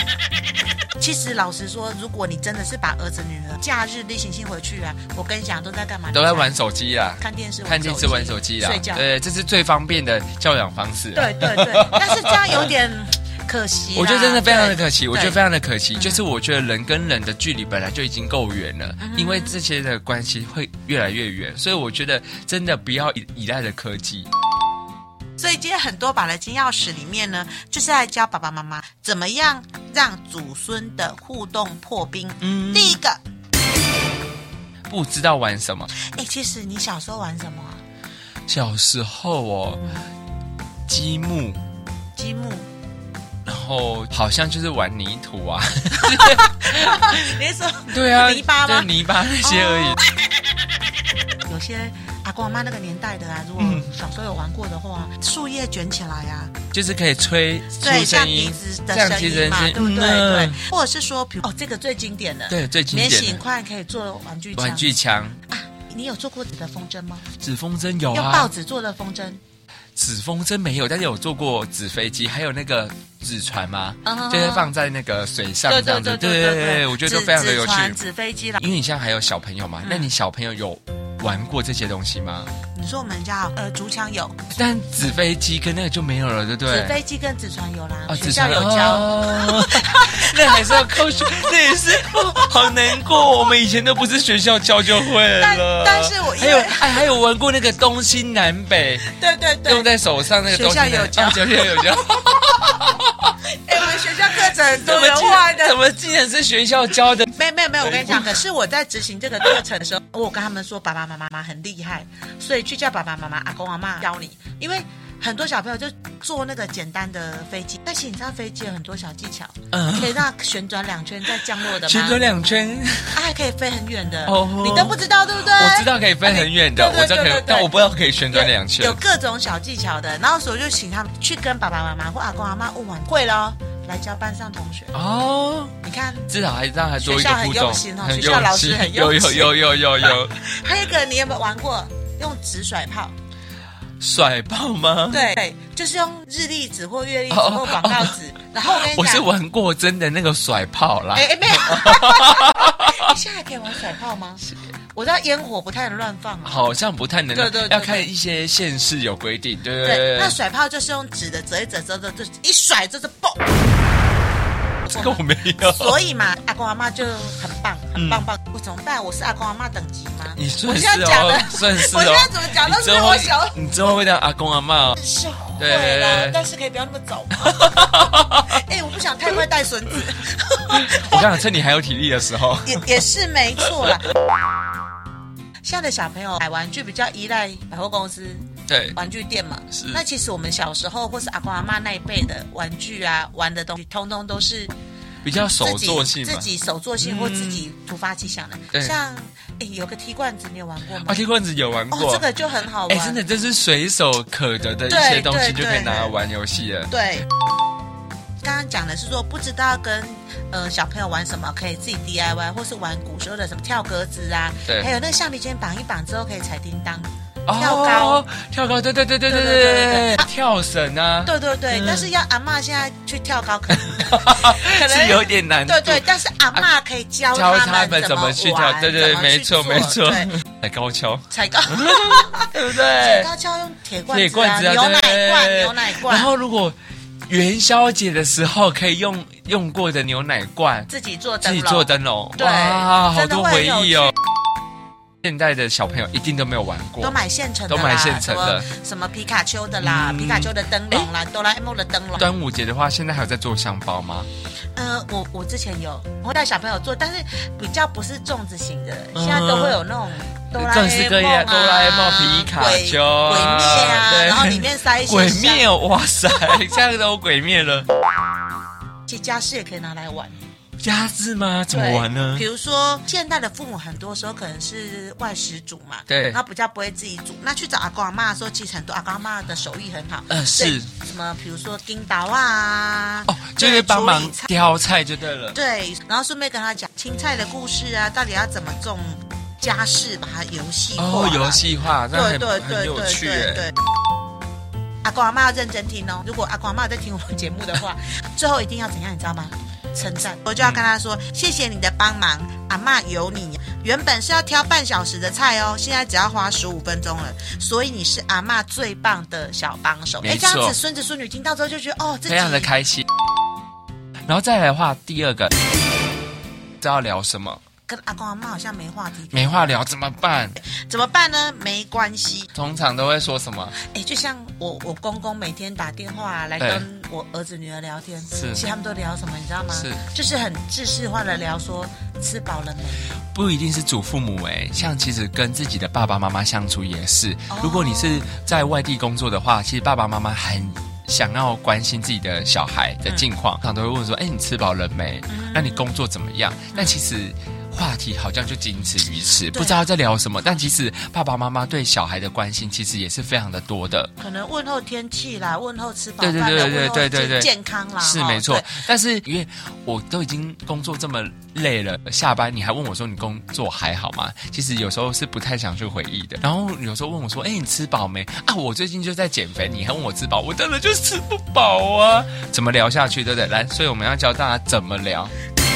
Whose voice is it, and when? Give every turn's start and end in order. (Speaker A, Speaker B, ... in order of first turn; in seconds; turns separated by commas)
Speaker A: 1.0-6.5, Speaker B: 6.1-12.7, Speaker A: 7.2-9.0, Speaker A: 11.1-15.4, Speaker B: 13.9-24.3, Speaker A: 15.9-16.2, Speaker A: 19.0-19.6, Speaker A: 25.4-33.2, Speaker B: 32.4-33.0, Speaker B: 34.9-35.9, Speaker A: 35.9-37.8, Speaker B: 38.5-39.8, Speaker A: 39.8-40.1, Speaker B: 40.9-41.6, Speaker A: 42.1-42.7, Speaker B: 43.5-47.3, Speaker A: 46.1-50.2, Speaker B: 47.9-50.0, Speaker A: 51.5-56.5, Speaker B: 53.6-53.9, Speaker B: 56.7-60.6, Speaker A: 57.7-65.0, Speaker B: 62.5-63.4, Speaker B: 64.6-65.4, Speaker A: 65.5-67.3, Speaker B: 67.4-68.5, Speaker A: 68.1-69.4, Speaker B: 70.0-78.0, Speaker A: 74.0-74.7, Speaker A: 75.7-78.6, Speaker B: 78.6-82.5, Speaker A: 79.8-80.1, Speaker A: 82.7-84.4, Speaker B: 84.5-86.9, Speaker A: 86.7-91.5, Speaker B: 88.1-99.0, Speaker A: 92.1-92.5, Speaker A: 95.3-97.1, Speaker A: 99.1-99.9, Speaker B: 99.6-103.3, Speaker A: 100.4-102.0, Speaker A: 103.6-105.8, Speaker B: 104.3-107.3, Speaker A: 107.3-122.2, Speaker B: 107.8-108.4, Speaker B: 119.7-120.2, Speaker B: 121.3-123.2, Speaker A: 123.1-127.7, Speaker B: 124.2-129.0, Speaker A: 128.3-134.9, Speaker B: 134.9-135.7, Speaker A: 135.8-136.3, Speaker B: 136.3-140.4, Speaker A: 137.0-143.1, Speaker B: 144.0-145.3, Speaker A: 145.1-149.3, Speaker B: 147.3-153.1, Speaker A: 151.1-156.8, Speaker B: 156.4-160.4, Speaker A: 157.3-158.1, Speaker A: 159.8-163.5, Speaker B: 164.9-165.9, Speaker A: 164.9-174.0, Speaker B: 167.9-168.2, Speaker B: 170.3-175.0, Speaker A: 175.0-181.4, Speaker B: 175.6-176.4, Speaker B: 177.4-178.5, Speaker B: 180.7-183.0, Speaker A: 182.6-184.1, Speaker A: 185.6-194.7, Speaker B: 188.7-189.0, Speaker B: 189.7-190.0, Speaker B: 195.2-196.5, Speaker A: 195.5-201.2, Speaker B: 197.0-197.6, Speaker B: 201.0-202.2, Speaker A: 201.9-203.2, Speaker B: 202.9-206.9, Speaker A: 204.9-206.2, Speaker A: 206.9-207.2, Speaker A: 208.4-218.2, Speaker B: 217.4-222.1, Speaker A: 219.3-220.2, Speaker A: 221.2-230.3, Speaker B: 223.8-226.7, Speaker B: 227.3-233.3, Speaker A: 231.3-236.3, Speaker B: 234.1-236.8, Speaker B: 237.3-240.9, Speaker A: 240.9-244.1, Speaker B: 241.4-244.1, Speaker B: 245.2-248.6, Speaker A: 247.0-252.3, Speaker B: 249.8-251.1, Speaker B: 252.2-254.3, Speaker A: 254.7-265.7, Speaker B: 259.1-259.8, Speaker B: 260.5-267.9, Speaker A: 269.1-270.4, Speaker B: 270.8-272.4, Speaker A: 271.7-284.5, Speaker B: 276.1-276.4, Speaker B: 280.3-280.9, Speaker B: 283.3-285.6, Speaker A: 285.5-293.7, Speaker B: 291.0-293.7, Speaker A: 295.0-312.7, Speaker B: 310.2-310.8, Speaker B: 312.2-313.1, Speaker B: 314.3-315.5, Speaker B: 316.8-317.6, Speaker A: 317.9-319.8, Speaker B: 319.3-320.6, Speaker A: 320.6-322.5, Speaker B: 322.5-323.7, Speaker A: 323.8-333.2, Speaker B: 326.6-326.8, Speaker B: 328.3-328.7, Speaker B: 329.7-330.0, Speaker B: 333.3-354.1, Speaker A: 337.5-338.3, Speaker A: 345.3-345.9, Speaker A: 349.5-349.9, Speaker A: 354.2-358.8, Speaker B: 356.2-375.3